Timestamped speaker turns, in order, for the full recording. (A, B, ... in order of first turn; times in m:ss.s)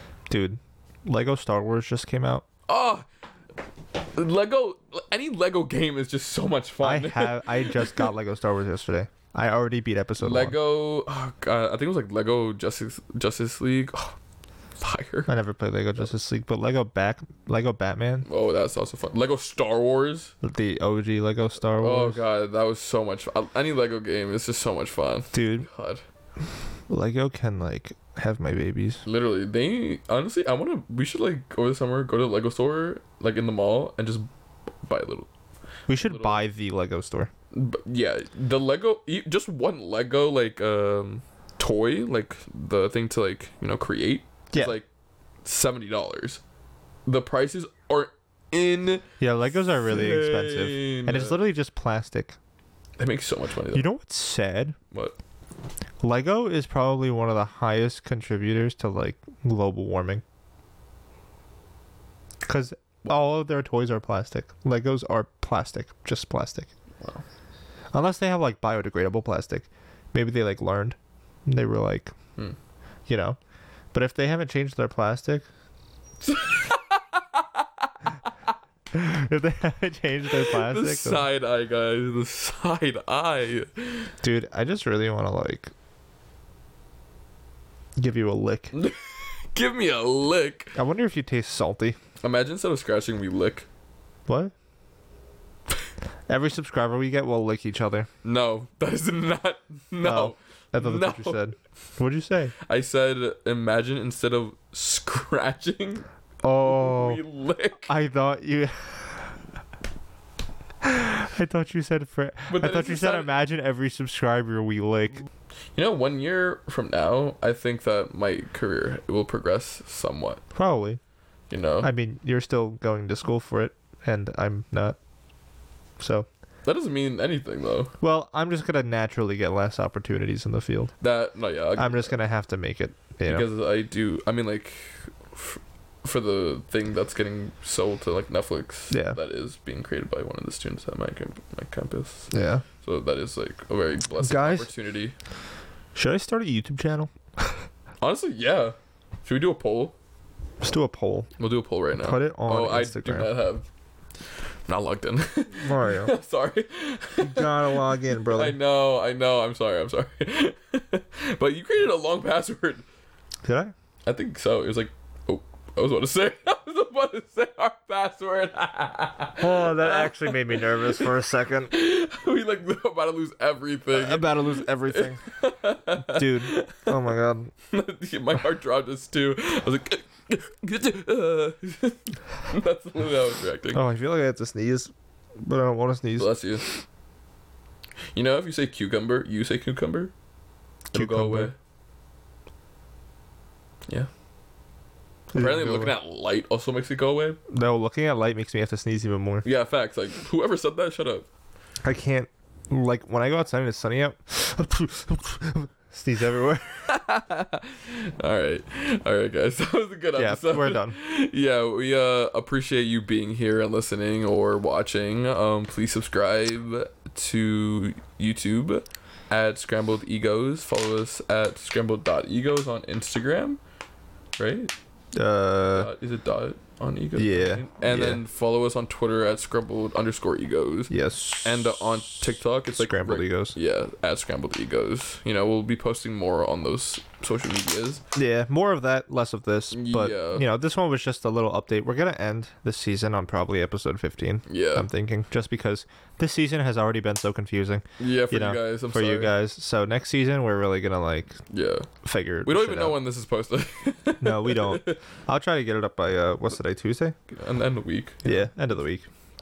0:00.3-0:02.4 A
0:02.7-0:03.0 B
0:04.1-0:08.1 B
0:06.8-0:10.6 A
0:10.2-0:14.2 B
0:14.8-0:15.3 B
0:15.3-0:18.3 A
0:18.3-0:20.3 B
0:20.4-0:22.2 A
0:21.8-0:26.0 B
0:25.3-0:25.7 A
0:26.9-0:29.0 A
0:29.0-0:34.3 B
0:34.8-0:35.3 B
0:35.9-0:37.3 A
0:36.0-0:36.4 B
0:37.5-0:44.9 B
0:45.4-0:46.4 B
0:47.0-0:51.4 B
0:49.2-0:52.4 A
0:53.0-0:53.9 B
0:53.7-0:54.8 A
0:56.0-1:00.2 A
1:02.4-1:06.7 A
1:07.9-1:12.1 A
1:13.1-1:13.4 A
1:13.9-1:15.4 A
1:16.2-1:17.9 B
1:18.9-1:21.3 A
1:20.3-1:24.1 B
1:24.2-1:25.7 A
1:28.0-1:28.7 A
1:28.7-1:30.8 B
1:30.7-1:32.0 A
1:32.2-1:33.7 B
1:34.3-1:34.5 A
1:36.3-1:38.1 A
1:38.2-1:41.4 B
1:40.0-1:42.5 A
1:42.6-1:46.0 B
1:46.4-1:47.2 A
1:46.6-1:47.9 B
1:47.9-1:49.4 A
1:50.8-1:55.2 A
1:52.5-1:53.3 B
1:55.7-2:00.4 B
2:00.6-2:01.0 A
2:01.5-2:01.9 B
2:01.8-2:05.0 A
2:06.0-2:06.3 A
2:06.6-2:07.9 B
2:08.0-2:10.9 A
2:11.0-2:12.1 B
2:11.8-2:13.5 A
2:13.2-2:25.2 B
2:18.9-2:19.2 A
2:22.3-2:22.6 A
2:24.2-2:24.7 A
2:25.9-2:27.6 A
2:28.0-2:29.9 B
2:30.6-2:31.3 A
2:31.4-2:33.6 B
2:32.0-2:33.3 A
2:34.7-2:42.8 B
2:35.6-2:36.1 A
2:37.2-2:38.6 A
2:43.4-2:43.7 A
2:44.0-2:51.1 B
2:49.4-2:51.7 A
2:51.7-2:57.0 B
2:53.9-2:55.2 A
2:56.0-2:57.5 A
2:57.7-3:03.9 B
3:03.7-3:06.7 A
3:06.2-3:06.6 B
3:08.1-3:10.1 B
3:10.9-3:11.6 B
3:10.9-3:11.5 A
3:15.3-3:17.4 B
3:15.3-3:15.9 A
3:17.5-3:19.4 A
3:19.4-3:21.3 B
3:21.8-3:26.8 A
3:26.9-3:43.6 B
3:30.2-3:31.0 A
3:44.4-3:44.7 B
3:45.1-3:45.9 A
3:45.7-3:50.9 B
3:47.2-3:48.2 A
3:50.9-3:51.8 A
3:51.4-3:58.0 B
3:52.8-3:53.6 A
3:58.1-4:11.4 A
3:59.7-4:00.4 B
4:04.5-4:04.9 B
4:08.0-4:09.3 B
4:11.5-4:11.9 B
4:12.0-4:13.0 A
4:12.4-4:15.0 B
4:14.2-4:17.2 A
4:17.3-4:18.5 B
4:18.2-4:19.1 A